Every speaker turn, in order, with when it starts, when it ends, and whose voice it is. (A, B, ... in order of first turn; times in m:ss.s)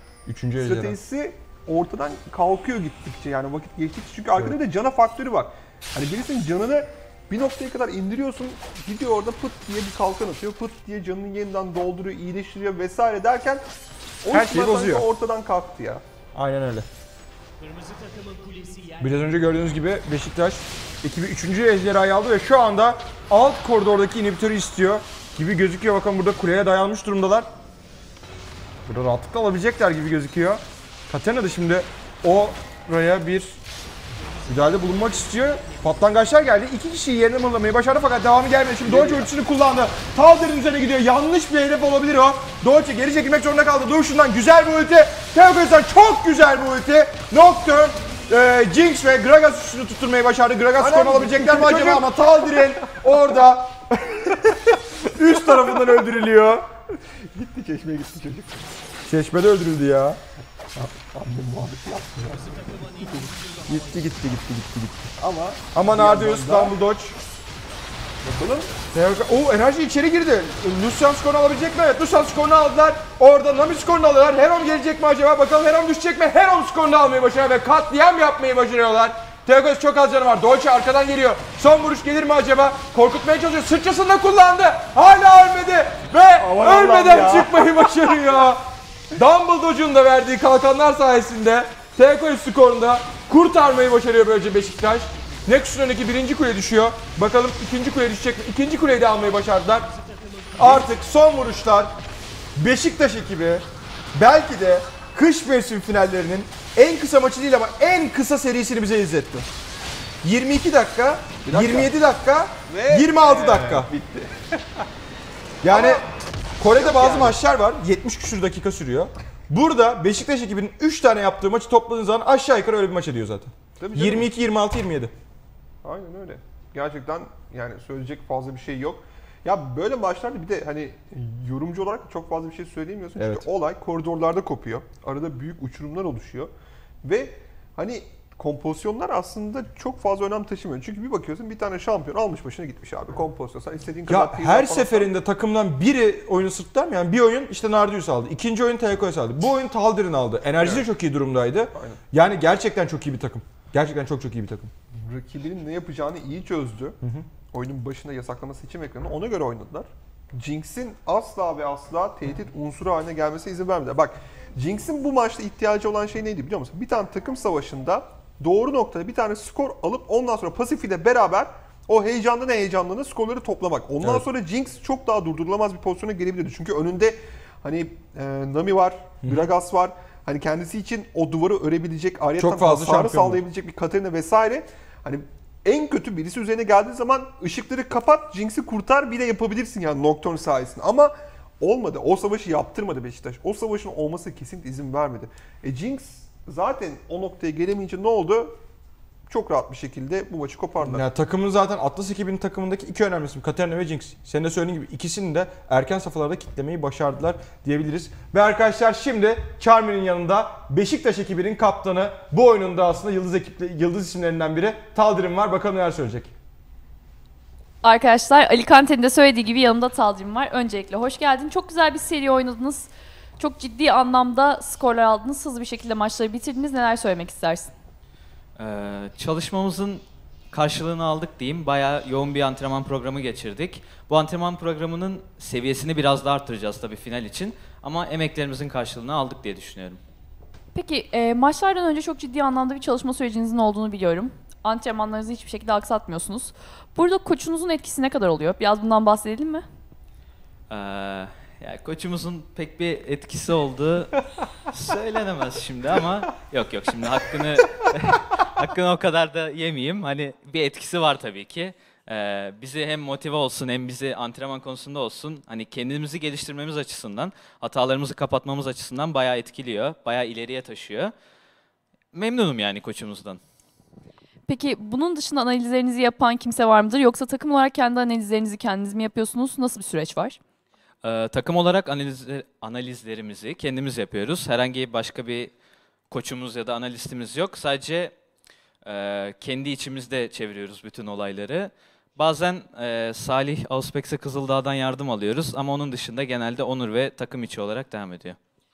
0:00.3-0:01.0 A
0:00.6-0:13.7 B
0:14.2-0:16.0 B
0:14.3-0:15.1 A
0:16.4-0:16.9 A
0:19.0-0:27.5 A
0:28.8-0:33.6 A
0:34.5-0:56.6 A
0:38.8-0:39.3 B
0:50.8-0:53.0 B
0:56.9-0:58.7 B
0:59.1-1:00.2 A
1:00.8-1:03.5 B
1:03.6-1:05.1 A
1:05.2-1:06.8 B
1:05.7-1:07.2 A
1:08.2-1:08.7 B
1:08.9-1:39.9 A
1:26.4-1:28.1 B
1:40.6-1:42.0 A
1:42.6-1:49.5 A
1:50.2-1:53.9 A
1:51.4-1:51.9 B
1:52.7-1:54.8 B
1:55.6-1:56.0 A
1:55.7-1:56.1 B
1:56.6-2:05.1 A
1:56.7-1:57.4 B
2:03.8-2:04.3 B
2:05.8-2:16.5 B
2:13.2-2:13.5 A
2:17.0-2:25.1 B
2:24.1-2:34.7 A
2:30.6-2:30.9 B
2:31.7-2:32.0 B
2:34.9-2:37.0 B
2:37.5-3:18.6 B
3:02.4-3:03.4 A
3:19.3-3:21.0 B
3:20.8-3:36.3 A
3:37.8-3:47.7 C
3:48.6-4:00.0 D
4:00.7-4:09.6 C
4:10.7-4:31.1 D
4:32.1-4:33.4 D
4:34.5-4:40.4 C
4:41.0-4:45.5 D
4:46.1-4:48.1 D
4:48.8-4:58.4 D